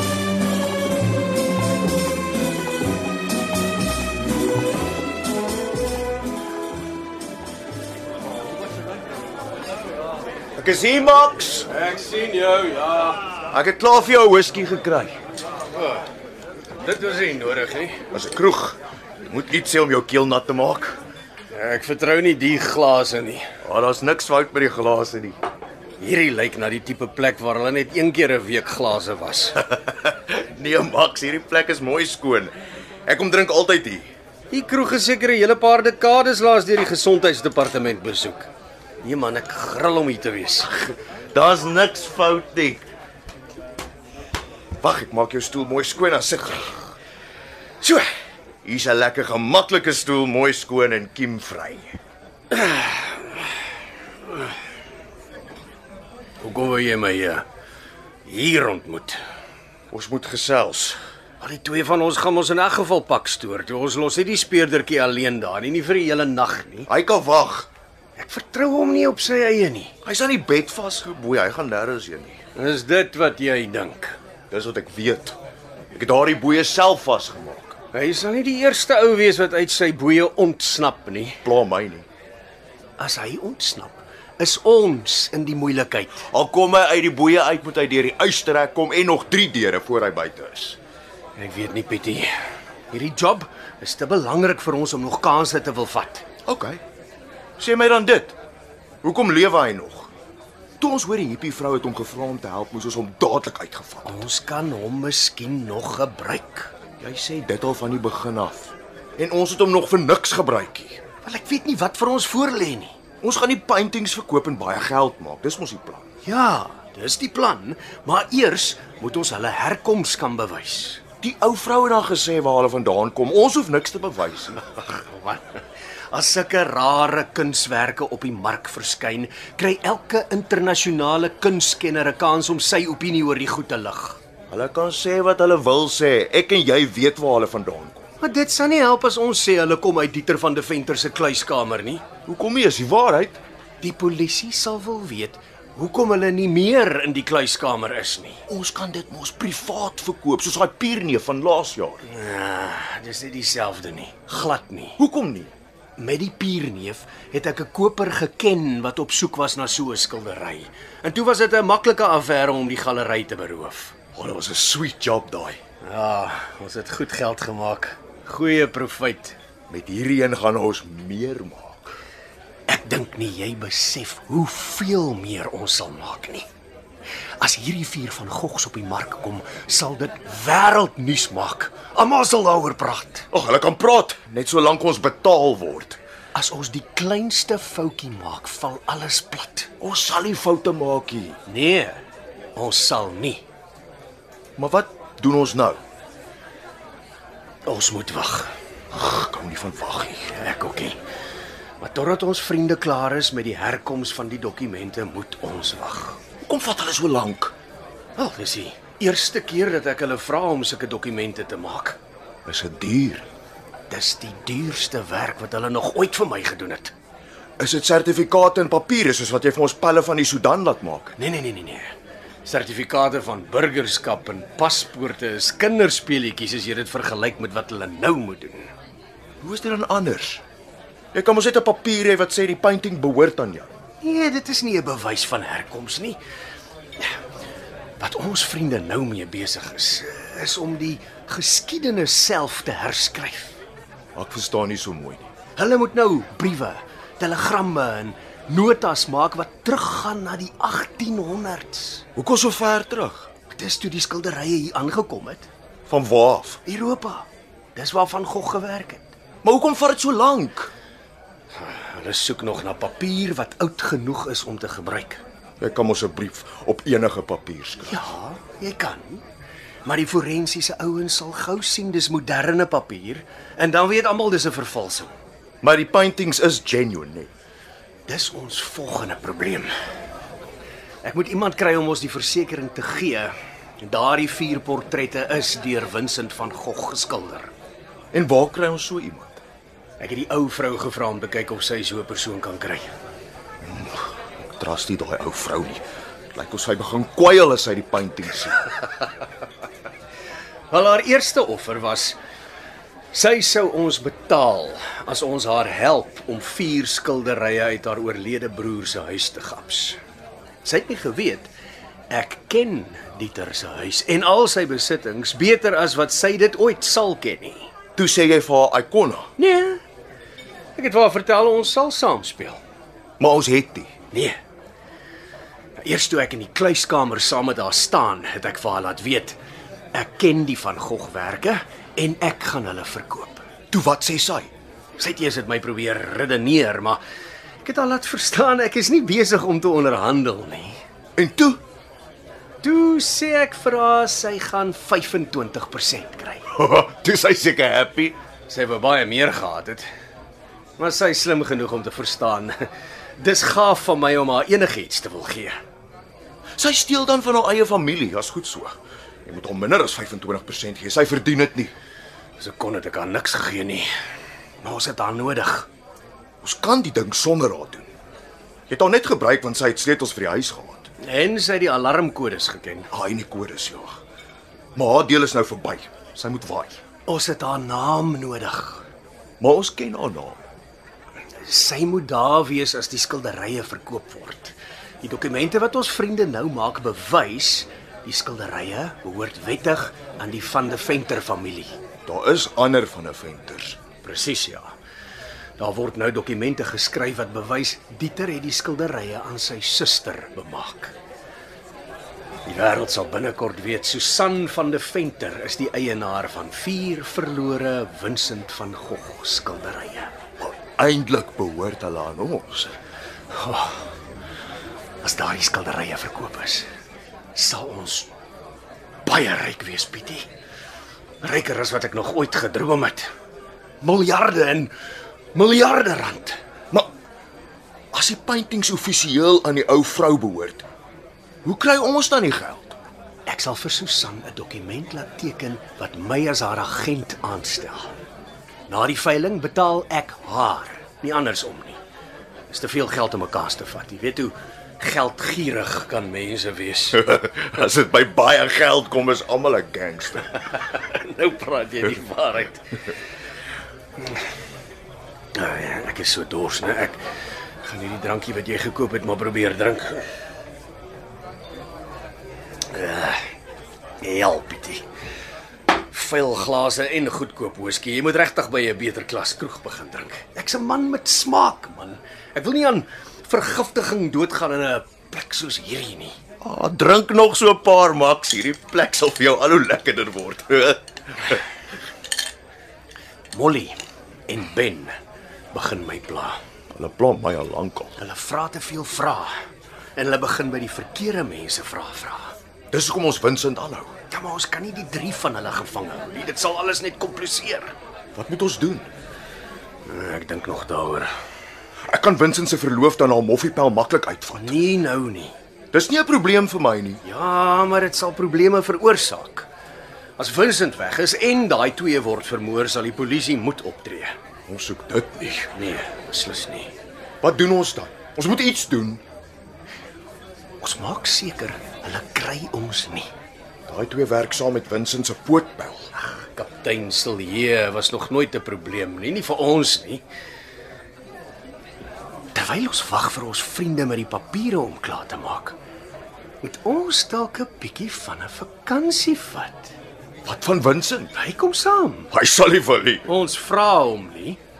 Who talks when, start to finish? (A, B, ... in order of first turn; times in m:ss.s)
0:10.6-0:11.7 A
0:11.7-0:13.4 B
0:13.5-0:15.2 A
0:16.8-0:18.0 B
0:18.1-0:21.0 A
0:21.5-0:23.4 B
0:23.6-0:25.4 A
0:26.0-0:29.6 B
0:29.6-0:32.5 A
0:33.1-0:34.1 A
0:34.5-0:38.5 B
0:39.0-0:40.9 B
0:41.3-0:42.8 A
0:44.8-0:46.9 A
0:47.8-0:48.1 A
0:48.6-0:52.0 A
0:52.5-0:53.4 B
0:56.4-0:57.4 B
0:58.2-0:59.2 B
0:59.9-1:01.0 A
1:01.4-1:06.9 B
1:06.9-1:07.7 A
1:08.2-1:09.9 B
1:10.0-1:12.4 A
1:12.5-1:14.2 B
1:14.5-1:15.4 A
1:15.9-1:17.8 A
1:17.9-1:21.5 B
1:21.4-1:22.1 A
1:23.0-1:26.3 B
1:26.3-1:30.8 A
1:31.4-1:32.3 B
1:32.9-1:36.2 B
1:36.4-1:36.8 A
1:37.6-1:38.4 A
1:39.0-1:40.1 A
1:40.8-1:44.2 A
1:44.0-1:46.7 B
1:47.0-1:51.0 A
1:51.2-1:53.0 B
1:53.2-1:56.1 A
1:56.2-2:01.0 B
2:01.2-2:04.6 A
2:04.7-2:14.2 B
2:14.5-2:18.1 A
2:18.2-2:22.0 B
2:22.2-2:23.4 A
2:23.8-2:28.4 B
2:28.5-2:32.0 A
2:32.0-2:35.0 B
2:35.0-2:35.5 A
2:36.0-2:43.9 B
2:44.1-2:45.6 A
2:45.8-2:49.4 B
2:49.7-2:51.9 A
2:52.7-2:56.5 B
2:57.4-3:03.3 B
3:03.3-3:06.0 A
3:06.3-3:09.7 B
3:09.8-3:11.4 A
3:11.4-3:12.0 B
3:12.5-3:13.4 B
3:14.6-3:15.8 A
3:17.6-3:18.5 B
3:18.9-3:20.3 A
3:20.3-3:21.0 B
3:21.8-3:26.2 B
3:26.4-3:27.5 A
3:28.2-3:32.0 B
3:32.4-3:33.2 A
3:33.9-3:36.9 B
3:37.6-3:41.2 A
3:41.2-3:48.7 B
3:49.4-3:50.4 A
3:51.1-3:53.7 A
3:54.0-3:56.2 B
3:58.0-4:03.6 B
4:04.2-4:05.3 A
4:05.6-4:12.1 B
4:12.2-4:13.3 A
4:13.5-4:15.5 B
4:15.9-4:16.6 A
4:16.6-4:19.1 B
4:19.4-4:20.7 A
4:21.5-4:25.2 B
4:25.6-4:28.1 A
4:27.8-4:29.2 B
4:29.8-4:35.1 B
4:35.6-4:37.3 A
4:38.1-4:39.7 B
4:41.0-4:47.5 B
4:48.1-4:49.4 A
4:50.0-4:52.9 B
4:53.6-4:55.8 A
4:56.3-4:58.6 A
5:00.7-5:02.2 B
5:03.1-5:10.0 B
5:10.6-5:11.5 B
5:12.1-5:17.7 B
5:18.0-5:19.3 A
5:19.4-5:19.8 B
5:20.8-5:22.6 B
5:23.2-5:23.9 A
5:24.1-5:24.4 B
5:25.8-5:29.4 B
5:29.9-5:33.4 B
5:33.7-5:34.5 A
5:35.0-5:37.0 B
5:37.6-5:40.8 B
5:41.2-5:41.6 A
5:42.6-5:46.5 B
5:46.5-5:48.2 A
5:48.5-5:49.8 B
5:50.8-5:55.6 B
5:56.6-6:01.7 A
6:02.4-6:03.9 B
6:04.6-6:05.7 B
6:06.4-6:07.9 A
6:08.7-6:10.9 A
6:11.0-6:12.9 B
6:12.9-6:14.0 A
6:14.7-6:16.8 A
6:17.1-6:18.8 B
6:19.4-6:20.4 A
6:21.4-6:31.8 B
6:32.0-6:33.8 A
6:34.0-6:34.7 B
6:35.6-6:40.9 B
6:42.4-6:50.2 B
6:50.5-6:52.8 A
6:53.3-6:53.8 B
6:55.0-6:56.6 B
6:57.3-6:58.1 B
6:59.0-7:00.2 B
7:01.2-7:03.1 B
7:03.8-7:04.7 B
7:05.3-7:06.4 B
7:07.9-7:10.6 A
7:11.4-7:12.8 A
7:13.2-7:17.9 B
7:18.7-7:21.8 B
7:22.5-7:27.0 B
7:26.9-7:30.4 A
7:30.5-7:32.8 B
7:35.3-7:37.0 B
7:37.6-7:40.0 B
7:42.7-7:43.2 B
7:44.0-7:44.8 B
7:45.7-7:56.2 B
7:56.4-8:01.4 A
8:03.3-8:03.8 B
8:04.3-8:05.0 B
8:05.5-8:06.4 B
8:06.7-8:08.0 A
8:08.0-8:09.3 B
8:10.0-8:12.3 B
8:12.7-8:13.9 A
8:14.1-8:17.7 B
8:18.1-8:18.9 A
8:19.8-8:21.1 B
8:21.9-8:24.6 A
8:24.3-8:25.3 B
8:25.7-8:27.0 A
8:27.0-8:29.5 B
8:30.2-8:34.2 B
8:34.5-8:35.5 A
8:35.5-8:36.7 B
8:37.2-8:39.0 A
8:40.6-8:43.1 B
8:43.7-8:45.9 A
8:46.1-8:50.0 B
8:52.3-8:55.6 B
8:56.4-8:59.7 B
9:00.2-9:01.1 A
9:01.1-9:02.1 B
9:02.1-9:03.0 A
9:03.0-9:04.4 B